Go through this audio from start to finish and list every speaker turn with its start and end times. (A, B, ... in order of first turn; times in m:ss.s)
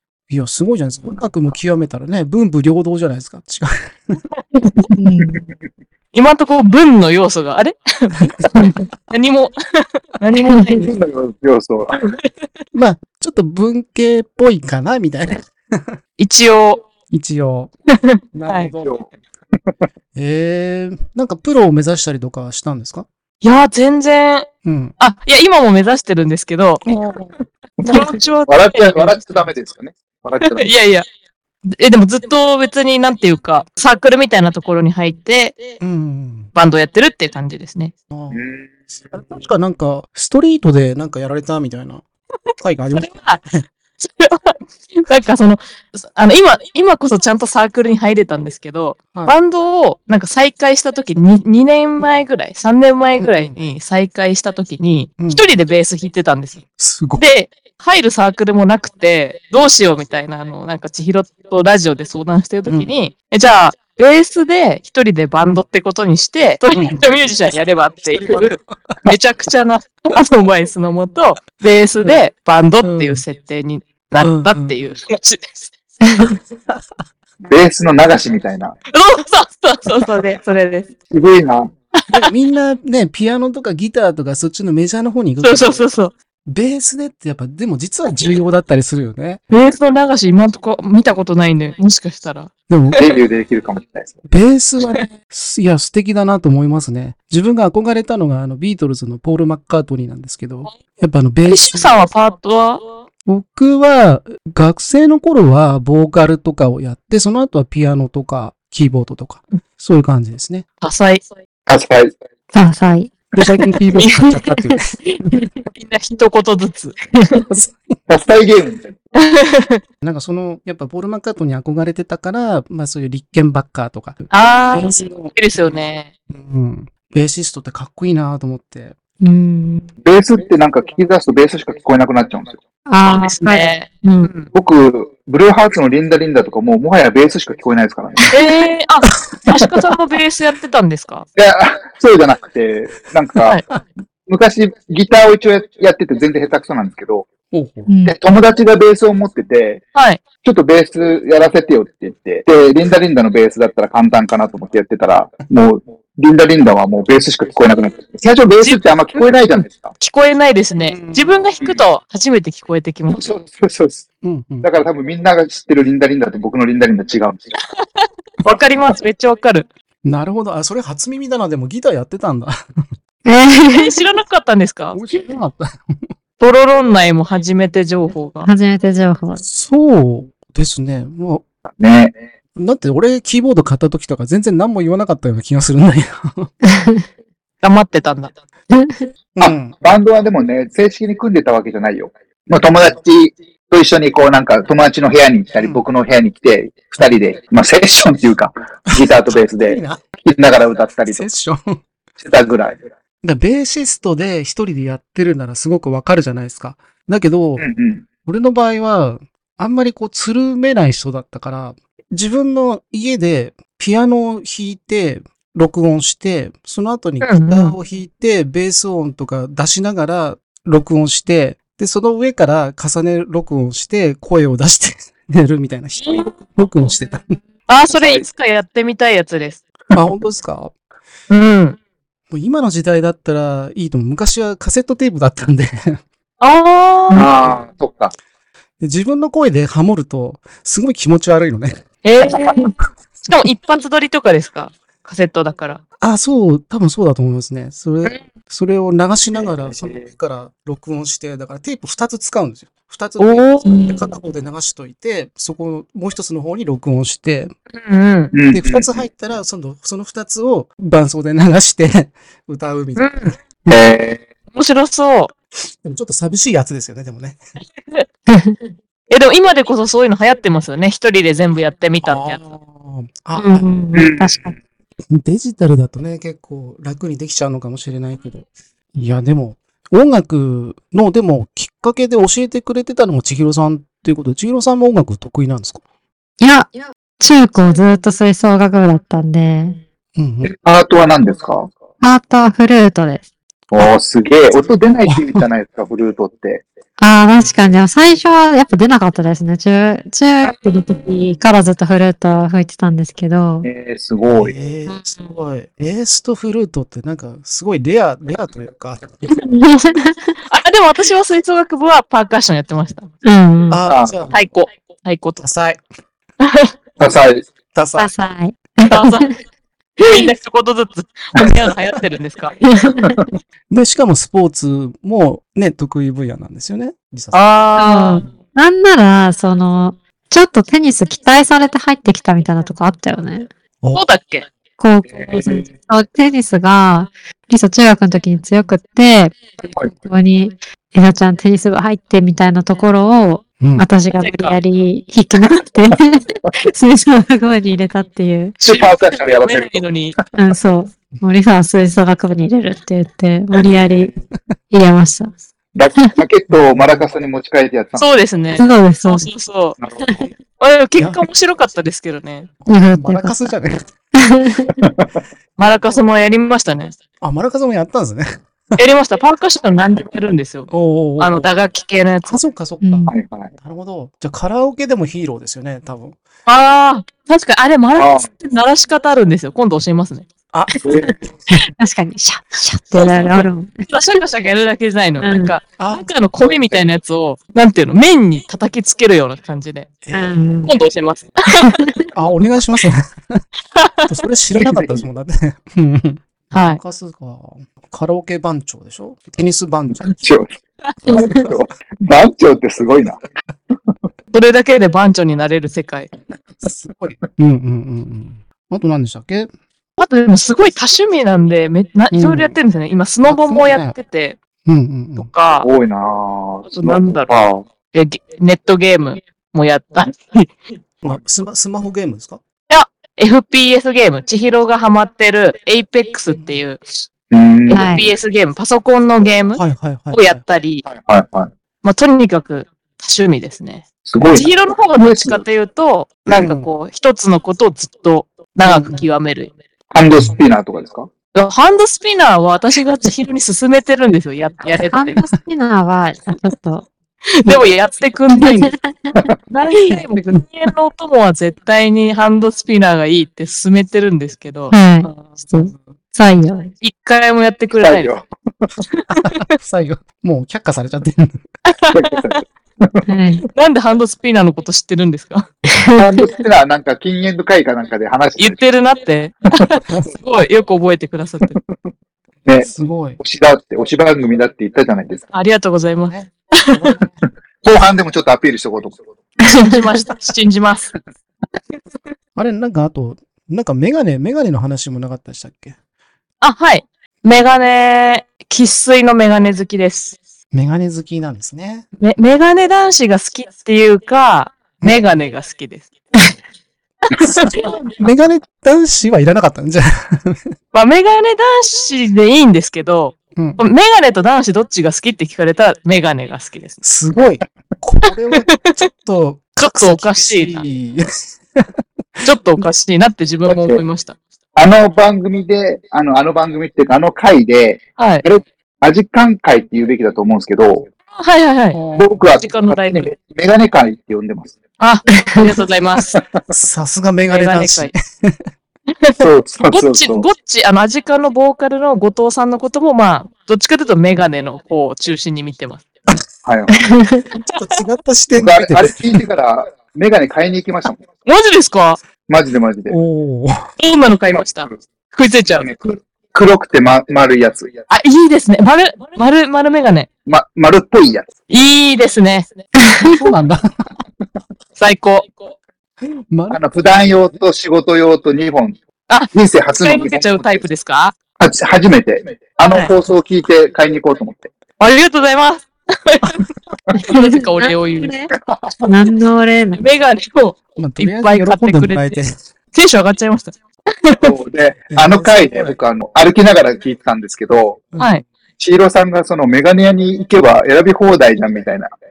0:00.3-0:04.2 A
0:04.4-0:04.9 B
0:04.9-0:05.5 C
0:06.1-0:10.8 B
0:10.8-0:12.0 D
0:12.7-0:16.0 A
0:16.2-0:16.8 B
0:17.1-0:17.7 A
0:18.0-0:18.7 B
0:18.3-0:18.9 A
0:20.2-0:23.1 A
0:23.4-0:24.5 B
0:24.6-0:24.9 A
0:25.0-0:26.8 B
0:26.9-0:27.3 A
0:27.8-0:30.7 D
0:27.8-0:29.2 B
0:30.5-0:31.0 B
0:31.7-0:35.6 B
0:35.8-0:36.5 A
0:36.6-0:37.9 B
0:38.1-0:38.5 A
0:38.3-0:38.7 D
0:39.1-0:42.0 A
0:42.6-0:43.6 A
0:43.0-0:43.4 B
0:44.0-0:56.6 B
0:53.2-0:53.6 A
0:55.2-0:55.4 A
0:56.8-0:57.3 A
0:57.2-1:08.5 B
1:02.7-1:02.9 A
1:06.7-1:07.0 A
1:08.1-1:08.6 A
1:09.0-1:15.7 B
1:12.8-1:13.2 A
1:14.2-1:14.8 A
1:17.4-1:18.8 D
1:18.9-1:20.9 B
1:21.1-1:21.7 D
1:22.1-1:25.9 A
1:25.4-1:26.1 B
1:26.5-1:29.4 A
1:29.5-1:32.5 B
1:32.7-1:33.0 A
1:33.0-1:34.2 D
1:34.3-1:41.9 A
1:41.5-1:42.9 B
1:43.3-1:50.7 A
1:50.8-1:51.2 B
1:51.7-1:52.1 D
1:52.5-1:53.1 C
1:53.3-1:55.0 A
1:53.9-1:54.3 B
1:55.7-1:57.0 B
1:57.5-1:58.0 A
1:58.1-1:58.9 D
1:59.1-1:59.8 B
2:00.0-2:05.3 A
2:04.3-2:06.1 B
2:06.3-2:09.0 A
2:09.2-2:09.9 C
2:10.0-2:12.6 D
2:12.9-2:14.3 C
2:13.0-2:14.5 B
2:14.5-2:18.3 D
2:18.3-2:21.3 B
2:21.4-2:23.6 D
2:24.3-2:27.3 D
2:27.5-2:27.9 A
2:27.9-2:28.2 C
2:28.0-2:29.8 D
2:30.0-2:30.2 B
2:30.4-2:39.9 D
2:38.6-2:43.3 B
2:40.9-2:41.5 A
2:43.1-2:44.0 D
2:44.2-2:44.7 A
2:44.6-2:47.5 D
2:48.0-2:49.7 B
2:50.0-2:52.6 A
2:53.2-2:54.0 C
2:53.7-2:55.0 B
2:54.9-2:56.1 A
2:56.4-2:58.5 B
2:58.5-2:59.4 C
2:59.4-3:01.4 A
3:01.8-3:02.1 D
3:02.6-3:06.5 A
3:06.7-3:07.0 C
3:07.6-3:08.3 B
3:08.7-3:09.0 C
3:09.4-3:09.8 A
3:09.4-3:21.3 D
3:15.6-3:15.8 A
3:18.9-3:20.0 A
3:21.1-3:21.8 A
3:22.2-3:22.8 D
3:23.2-3:27.7 A
3:27.6-3:28.0 D
3:28.2-3:47.4 A
3:37.2-3:37.8 B
3:46.0-3:46.3 B
3:47.7-3:49.6 B
3:47.9-3:48.2 D
3:49.9-3:50.7 A
3:51.3-3:51.8 B
3:52.3-3:56.0 A
3:56.4-3:57.3 B
3:57.2-3:58.1 D
3:58.8-4:01.8 A
4:02.0-4:02.7 B
4:03.3-4:05.8 B
4:06.0-4:17.6 A
4:09.8-4:10.1 D
4:13.2-4:14.0 B
4:17.7-4:18.3 B
4:18.3-4:18.9 D
4:18.5-4:23.8 A
4:23.0-4:23.4 B
4:23.7-4:24.2 D
4:24.5-4:25.3 B
4:25.8-4:27.4 A
4:28.3-4:28.6 C
4:29.1-4:32.4 B
4:32.0-4:33.7 A
4:33.4-4:34.6 C
4:34.0-4:34.4 D
4:35.1-4:45.8 A
4:46.4-4:49.8 C
4:50.2-4:50.5 A
4:50.4-4:51.7 D
4:52.0-4:53.2 C
4:53.7-4:56.6 D
4:55.1-4:55.5 A
4:57.0-5:03.7 C
4:57.4-4:57.8 A
5:03.6-5:04.5 D
5:04.3-5:09.4 A
5:04.9-5:05.3 C
5:09.4-5:10.3 C
5:10.5-5:13.1 B
5:13.2-5:13.8 C
5:13.7-5:14.4 A
5:13.9-5:14.2 D
5:14.3-5:15.4 B
5:15.4-5:15.8 A
5:16.4-5:16.7 B
5:17.0-5:17.4 D
5:17.7-5:18.1 A
5:18.0-5:19.3 C
5:18.9-5:19.3 B
5:20.0-5:22.6 B
5:22.8-5:23.1 C
5:23.7-5:27.4 A
5:27.3-5:28.3 B
5:27.8-5:33.5 C
5:33.9-5:34.5 B
5:34.8-5:39.4 C
5:35.2-5:35.6 D
5:40.0-5:48.6 C
5:43.6-5:43.9 A
5:44.2-5:44.6 B
5:48.6-5:50.2 B
5:48.6-5:49.8 D
5:50.4-5:54.1 C
5:54.7-5:55.4 C
5:55.8-5:58.0 D
5:56.5-5:57.1 A
5:58.0-5:59.8 B
5:58.6-5:59.3 C
5:59.8-6:00.2 D
6:00.6-6:02.5 B
6:02.7-6:03.8 A
6:02.7-6:03.5 C
6:04.2-6:04.8 C
6:05.6-6:07.0 B
6:07.2-6:08.8 A
6:08.8-6:12.4 B
6:10.7-6:11.5 A
6:12.3-6:16.2 A
6:12.8-6:13.1 C
6:13.1-6:13.5 D
6:16.5-6:20.3 B
6:18.0-6:18.3 D
6:20.5-6:20.9 A
6:20.8-6:21.2 D
6:21.8-6:23.8 C
6:23.0-6:29.9 B
6:25.2-6:25.6 C
6:25.8-6:26.1 A
6:30.0-6:30.3 A
6:30.1-6:30.7 C
6:30.6-6:31.8 B
6:32.1-6:33.4 A
6:33.8-6:34.1 B
6:34.1-6:40.2 A
6:34.6-6:35.0 D
6:36.5-6:36.8 B
6:40.0-6:40.5 D
6:41.1-6:43.2 D
6:44.3-6:46.1 B
6:46.6-6:49.5 A
6:50.0-6:54.4 B
6:52.1-6:52.6 A
6:53.2-6:54.0 A
6:54.6-6:55.3 A
6:55.2-6:55.7 B
6:55.6-6:57.6 D
6:56.7-6:57.3 B
6:57.9-7:00.5 B
7:01.0-7:02.4 A
7:02.7-7:07.1 B
7:07.3-7:07.9 D
7:07.7-7:10.8 B
7:07.7-7:08.0 C
7:09.6-7:10.4 A
7:10.9-7:11.5 D
7:11.8-7:19.5 B
7:14.1-7:14.5 D
7:15.1-7:15.4 D
7:16.3-7:16.7 A
7:18.6-7:19.0 A
7:19.9-7:21.1 D
7:21.3-7:25.2 B
7:24.9-7:26.9 C
7:27.4-7:28.7 B
7:28.3-7:29.2 C
7:29.5-7:35.4 B
7:34.7-7:36.7 C
7:35.6-7:35.8 A
7:36.8-7:38.1 B
7:37.8-7:38.2 D
7:39.1-7:41.4 A
7:41.7-7:42.4 B
7:41.9-7:43.0 D
7:43.1-7:43.4 C
7:43.5-7:45.5 B
7:45.7-7:46.2 C
7:46.0-7:48.6 D
7:48.4-7:51.6 B
7:52.6-7:53.2 A
7:53.2-7:55.2 D
7:55.3-7:56.8 B
7:56.1-7:57.2 A
7:57.6-7:59.0 D
7:59.4-8:00.9 B
8:02.4-8:05.8 A
8:06.4-8:10.2 B
8:10.5-8:11.9 A
8:12.0-8:15.9 B
8:17.2-8:17.6 B
8:17.2-8:20.5 A
8:20.7-8:26.8 B
8:23.4-8:23.6 A
8:26.8-8:31.7 A
8:29.6-8:30.6 B
8:32.2-8:32.6 A
8:32.2-8:34.2 B
8:33.5-8:33.8 D
8:34.6-8:40.9 D
8:38.0-8:38.2 B
8:41.2-8:41.8 B
8:41.7-8:42.2 A
8:42.0-8:44.6 D
8:42.4-8:43.1 B
8:44.8-8:46.1 B
8:46.5-8:48.4 A
8:47.3-8:47.9 B
8:49.2-8:50.3 D
8:49.7-8:55.8 B
8:56.4-8:56.8 D
8:56.9-8:57.2 C
8:57.5-8:59.2 A
8:58.4-9:01.0 D
9:01.3-9:02.0 B
9:02.3-9:03.0 D
9:02.9-9:03.7 A
9:03.8-9:05.7 B
9:04.4-9:04.7 D
9:05.6-9:07.7 D
9:07.9-9:10.1 B
9:10.3-9:11.3 D
9:11.5-9:12.5 B
9:13.0-9:13.7 A
9:14.8-9:15.3 B
9:16.0-9:17.4 A
9:16.5-9:18.8 D
9:19.1-9:21.2 B
9:19.3-9:20.5 D
9:21.4-9:24.5 D
9:24.8-9:26.4 B
9:27.0-9:28.3 C
9:27.1-9:28.1 B
9:28.5-9:28.8 D
9:28.8-9:29.8 C
9:29.8-9:32.2 B
9:30.8-9:32.4 A
9:32.7-9:34.3 B
9:34.2-9:37.9 D
9:34.9-9:35.8 A
9:38.0-9:38.2 B
9:38.6-9:41.9 D